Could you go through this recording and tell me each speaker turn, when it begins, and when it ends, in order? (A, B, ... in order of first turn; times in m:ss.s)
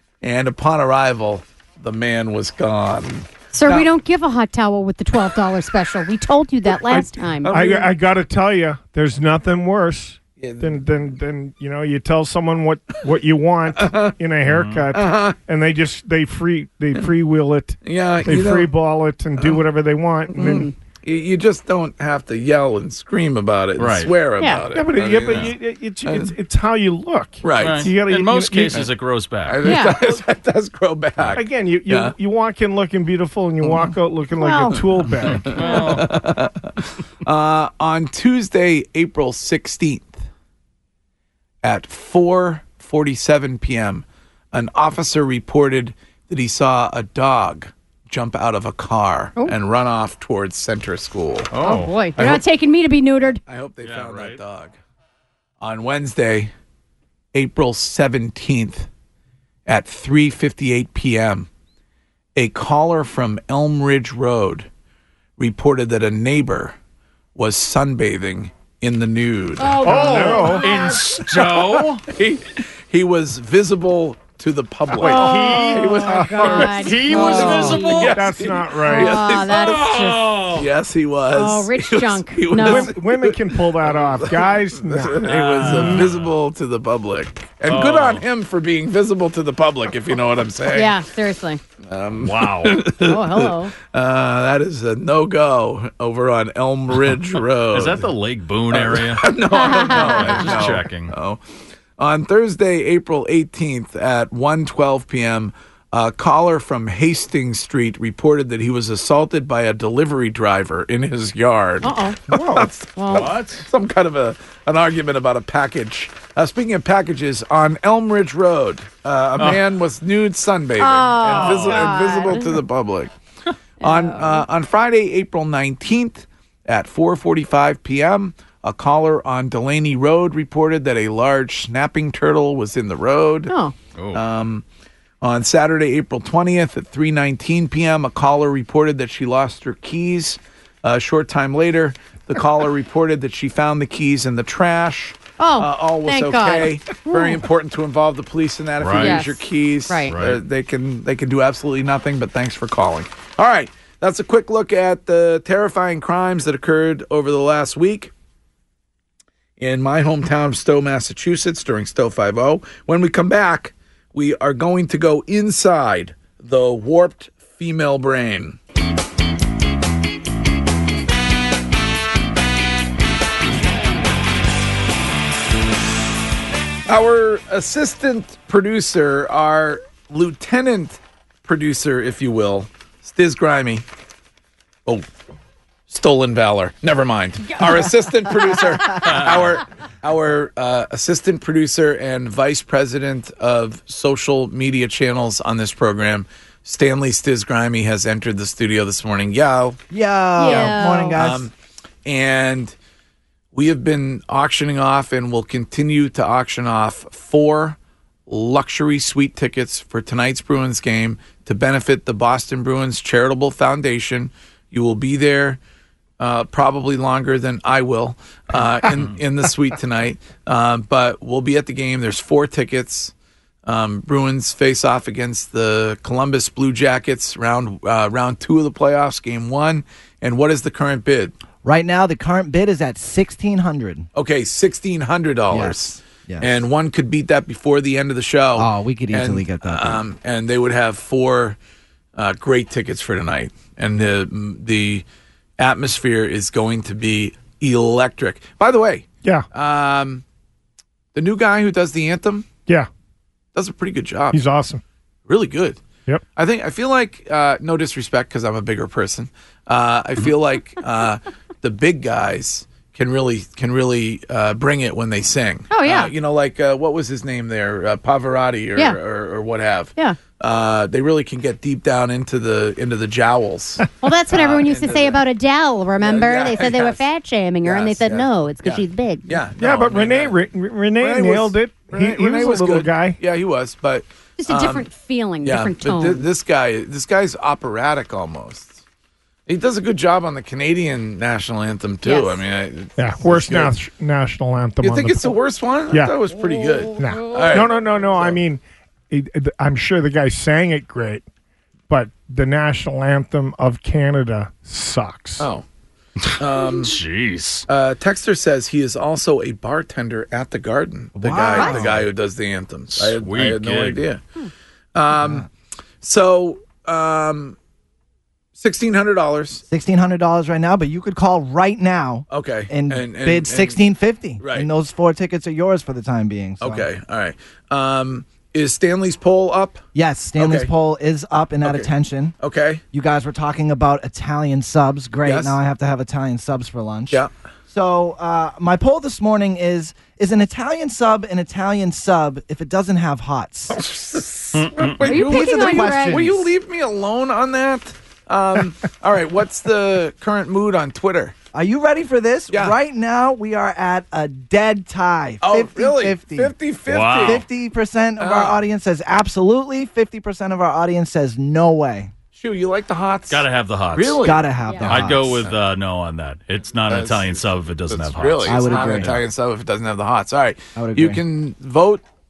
0:00.2-0:03.9 A
0:03.5-0:07.8 B
0:07.5-0:20.7 C
0:10.4-0:10.8 A
0:13.8-0:14.1 A
0:14.4-0:14.9 D
0:14.9-0:15.4 A
0:17.8-0:18.7 A
0:19.4-0:19.6 A
0:20.4-0:26.3 A
0:23.8-0:24.1 D
0:24.7-0:28.9 C
0:25.3-0:25.5 D
0:27.4-0:27.9 A
0:27.6-0:29.8 D
0:29.4-0:32.1 A
0:29.6-0:30.0 B
0:31.4-0:35.6 C
0:33.6-0:33.9 A
0:34.4-0:34.8 B
0:35.2-0:36.1 D
0:35.6-0:36.0 B
0:35.7-0:40.2 A
0:41.6-0:51.5 A
0:51.5-0:52.3 D
0:51.6-0:53.4 B
0:53.4-0:54.7 A
0:53.8-0:54.4 D
0:55.6-0:56.5 A
0:57.3-0:58.9 A
0:59.7-1:01.5 A
1:02.4-1:04.7 A
1:05.4-1:06.8 A
1:07.4-1:31.0 A
1:09.6-1:12.0 D
1:09.8-1:10.7 C
1:10.1-1:10.5 B
1:15.0-1:18.3 D
1:15.0-1:18.1 B
1:15.1-1:19.2 C
1:18.8-1:20.4 B
1:19.5-1:20.6 D
1:21.3-1:22.9 B
1:22.5-1:26.0 C
1:25.2-1:26.3 D
1:27.6-1:28.2 D
1:30.7-1:31.6 B
1:31.9-1:38.1 A
1:32.2-1:32.9 D
1:33.0-1:33.7 B
1:37.7-1:41.1 D
1:38.7-1:41.4 A
1:39.5-1:40.6 B
1:42.0-2:03.1 A
1:51.8-1:52.3 B
1:53.0-1:53.4 B
1:53.1-1:53.7 D
2:00.8-2:02.6 B
2:01.2-2:02.0 D
2:03.8-2:04.4 B
2:03.8-2:13.5 A
2:13.5-2:13.7 B
2:14.0-2:14.2 D
2:14.1-2:14.6 A
2:15.2-2:38.1 A
2:25.4-2:27.4 B
2:28.8-2:29.2 D
2:29.0-2:30.2 B
2:30.1-2:30.4 D
2:39.6-2:48.6 A
2:56.9-3:03.8 A
3:05.9-3:19.8 A
3:19.9-3:21.5 E
3:20.4-3:21.2 B
3:20.4-3:21.5 A
3:22.0-3:22.7 A
3:23.5-3:35.6 A
3:36.2-3:43.1 A
3:43.7-3:51.3 A
3:51.6-3:54.1 E
3:54.1-4:01.6 A
3:55.5-3:56.5 E
3:58.6-4:00.0 E
4:02.2-4:05.0 A
4:05.6-4:10.2 A
4:11.1-4:12.4 A
4:13.6-4:14.4 A
4:14.3-4:14.8 C
4:15.3-4:15.8 A
4:16.4-4:35.2 A
4:25.7-4:26.1 B
4:34.0-4:39.3 B
4:36.0-4:37.0 A
4:37.6-4:40.4 A
4:39.6-4:43.2 C
4:41.0-4:44.9 A
4:44.4-4:46.3 B
4:45.4-4:48.8 A
4:49.5-4:53.7 A
4:52.0-4:52.4 B
4:53.0-4:55.3 C
4:54.8-4:58.4 A
4:57.0-5:01.2 C
5:01.9-5:05.5 C
5:05.4-5:05.6 A
5:06.4-5:06.9 A
5:06.7-5:07.7 D
5:07.7-5:14.2 A
5:11.2-5:12.1 D
5:11.2-5:12.0 E
5:13.0-5:14.0 D
5:15.0-5:15.5 A
5:15.1-5:15.4 E
5:16.0-5:17.6 A
5:18.6-5:19.6 A
5:19.7-5:26.8 E
5:22.3-5:23.8 A
5:24.4-5:24.7 A
5:26.6-5:29.8 A
5:29.9-5:32.4 E
5:30.4-5:30.7 A
5:31.6-5:32.8 A
5:32.9-5:43.8 E
5:35.2-5:35.6 A
5:43.7-5:51.3 A
5:44.6-5:45.0 D
5:45.0-5:46.4 E
5:45.0-5:46.4 B
5:51.5-5:56.5 E
5:52.5-5:52.8 A
5:55.4-5:57.4 A
5:56.9-5:57.4 D
5:57.2-6:02.1 E
5:58.2-5:58.6 A
6:02.3-6:04.4 A
6:03.3-6:04.3 D
6:04.2-6:05.4 E
6:04.6-6:04.9 B
6:04.8-6:09.2 D
6:05.0-6:05.6 A
6:06.9-6:12.0 A
6:08.4-6:09.2 E
6:10.8-6:11.2 E